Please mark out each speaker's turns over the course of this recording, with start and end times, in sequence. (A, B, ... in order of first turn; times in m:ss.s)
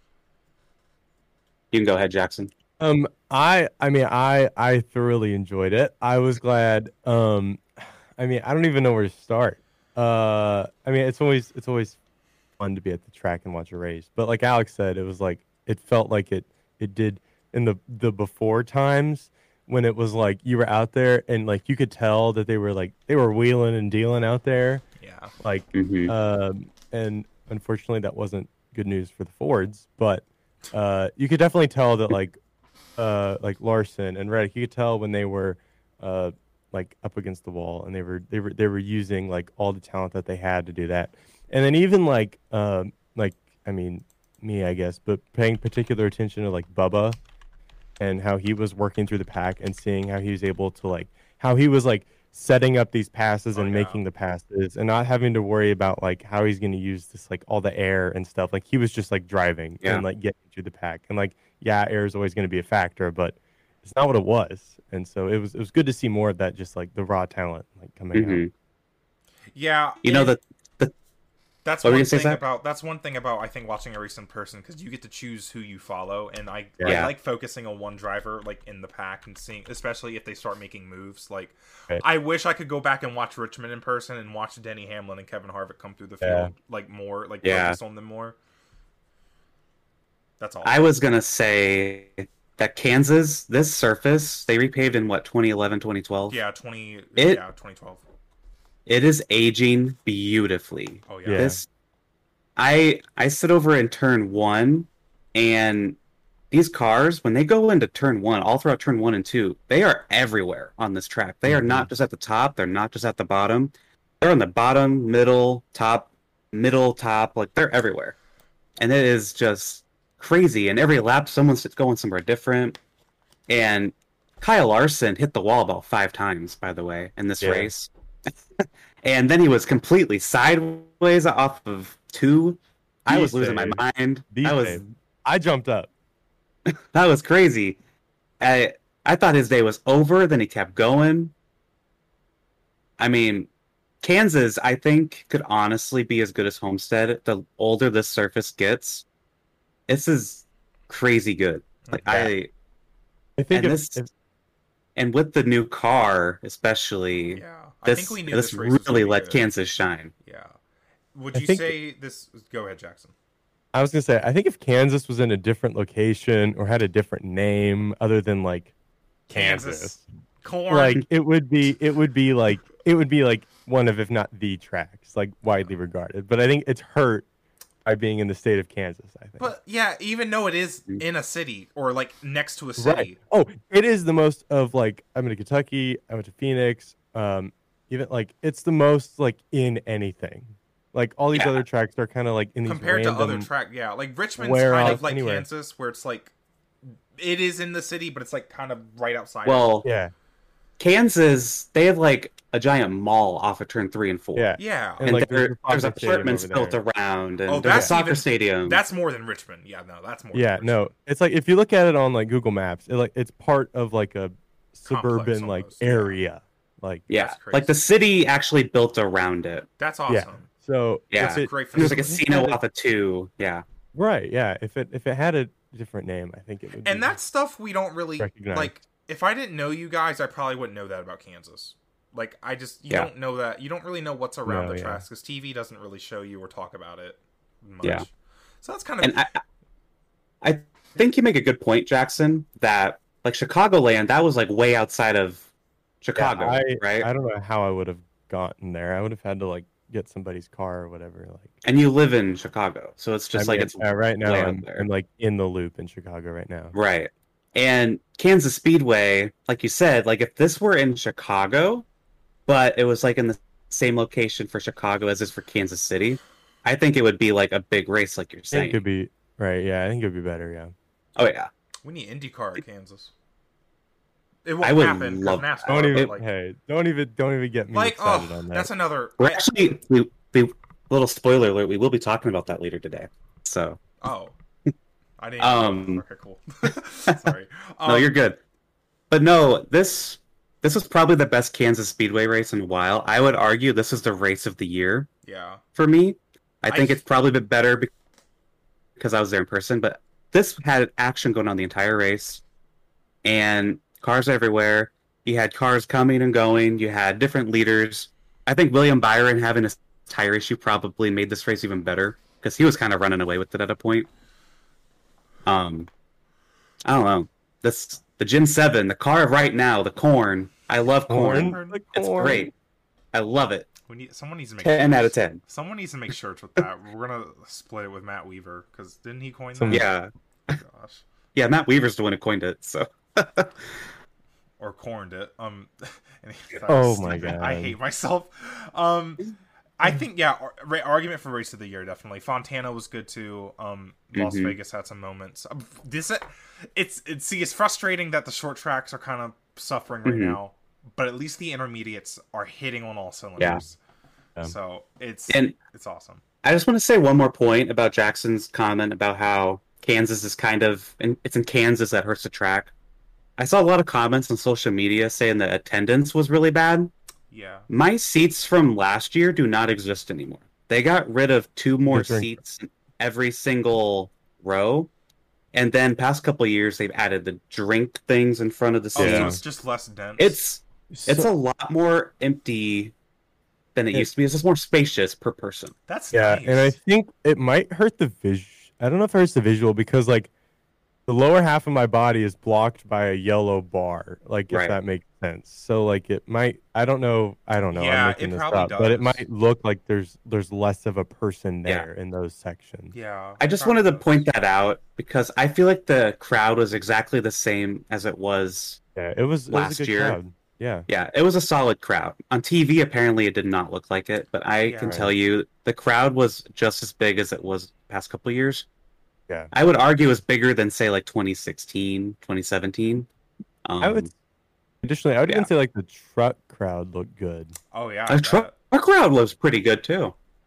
0:01.7-0:02.5 A
0:02.8-0:12.0 B
0:12.6-0:24.8 B
0:25.0-0:25.3 C
0:25.4-0:32.4 B
0:25.7-0:26.1 A
0:33.0-0:47.2 B
0:48.0-1:08.4 B
0:53.5-0:54.0 C
1:08.1-1:08.5 A
1:09.5-1:10.3 C
1:10.0-1:10.9 A
1:11.6-1:28.4 C
1:11.8-1:12.4 A
1:16.8-1:17.1 A
1:26.2-1:26.5 B
1:27.4-1:27.8 A
1:30.4-1:30.8 C
1:30.6-1:36.4 A
1:36.3-1:38.0 C
1:37.2-1:37.4 A
1:38.8-1:41.6 A
1:41.1-1:41.5 C
1:41.2-1:41.6 B
1:42.6-1:46.0 A
1:46.5-1:58.2 A
1:51.5-1:51.9 B
1:58.8-2:02.8 A
2:03.5-2:08.3 A
2:07.4-2:07.7 B
2:09.0-2:14.8 A
2:13.1-2:15.9 B
2:16.9-2:17.8 A
2:18.4-2:21.3 A
2:23.0-2:23.5 A
2:24.0-2:29.0 A
2:29.9-2:32.5 A
2:31.8-2:32.2 C
2:33.4-2:34.1 B
2:33.5-2:34.0 A
2:35.0-2:40.1 A
2:37.3-2:39.4 C
2:40.2-2:40.6 C
2:41.1-2:43.1 C
2:41.3-2:41.7 B
2:43.7-2:48.7 B
2:49.3-2:50.0 B
2:49.3-2:51.0 C
2:50.7-2:57.2 B
2:57.8-2:59.5 B
2:59.4-3:03.1 C
3:02.8-3:13.5 B
3:11.3-3:11.6 A
3:12.6-3:16.3 C
3:14.4-3:15.5 B
3:16.9-3:19.7 C
3:19.4-3:19.8 A
3:19.8-3:20.1 B
3:20.8-3:28.8 A
3:24.3-3:26.8 B
3:24.6-3:25.1 C
3:27.5-3:30.9 C
3:27.6-3:27.9 B
3:30.3-3:37.0 B
3:34.9-3:36.2 C
3:37.1-3:39.7 A
3:37.1-3:37.8 C
3:39.8-3:40.5 C
3:40.1-3:42.6 B
3:41.1-3:43.6 A
3:41.2-3:42.2 C
3:43.9-3:47.2 B
3:46.8-3:59.2 C
3:48.2-3:48.7 B
3:54.4-3:55.0 B
3:59.0-3:59.4 A
4:00.4-4:05.5 A
4:06.0-4:07.1 A
4:06.2-4:11.5 B
4:11.6-4:14.8 A
4:13.3-4:16.7 B
4:16.7-4:21.8 A
4:22.5-4:28.8 A
4:28.5-4:30.7 B
4:31.2-4:31.5 A
4:31.8-4:33.1 C
4:34.4-4:36.2 C
4:34.6-4:36.1 A
4:35.7-4:38.7 B
4:37.7-4:39.4 C
4:39.2-4:43.8 A
4:44.0-4:44.3 C
4:45.2-4:48.1 C
4:45.4-4:46.0 A
4:47.8-4:48.4 A
4:49.1-4:55.1 A
4:55.2-4:55.6 C
4:55.8-4:57.9 A
4:56.7-4:57.0 C
4:59.0-5:02.4 A
5:03.2-5:14.1 A
5:15.4-5:15.9 A
5:16.8-5:22.5 A
5:21.1-5:22.5 B
5:21.1-5:21.8 C
5:23.1-5:23.7 A
5:23.9-5:29.9 C
5:24.6-5:25.4 A
5:29.5-5:29.8 B
5:29.7-5:30.6 A
5:30.5-5:31.0 C
5:31.3-5:33.7 A
5:34.6-5:39.3 C
5:36.7-5:37.8 B
5:39.8-5:53.8 C
5:44.1-5:44.6 A
5:50.0-5:50.4 A
5:54.4-5:56.2 C
5:55.3-5:55.6 A
5:56.4-6:02.7 A
6:03.4-6:06.9 A
6:07.3-6:07.7 C
6:07.7-6:14.9 A
6:11.9-6:12.3 B
6:15.5-6:19.4 A
6:18.9-6:20.4 C
6:19.0-6:19.4 B
6:20.2-6:22.9 A
6:20.9-6:21.3 B
6:23.7-6:25.7 A
6:25.9-6:26.8 C
6:26.1-6:30.3 B
6:31.1-6:42.9 B
6:34.5-6:34.8 A
6:37.7-6:39.2 C
6:42.9-6:44.2 C
6:43.4-6:48.8 A
6:49.0-6:50.9 B
6:49.5-6:50.2 A
6:50.9-6:58.6 A
6:54.6-6:55.1 C
6:59.5-7:03.1 A
7:03.6-7:04.1 A
7:03.8-7:04.1 B
7:04.8-7:07.5 B
7:07.7-7:08.5 C
7:08.1-7:10.1 A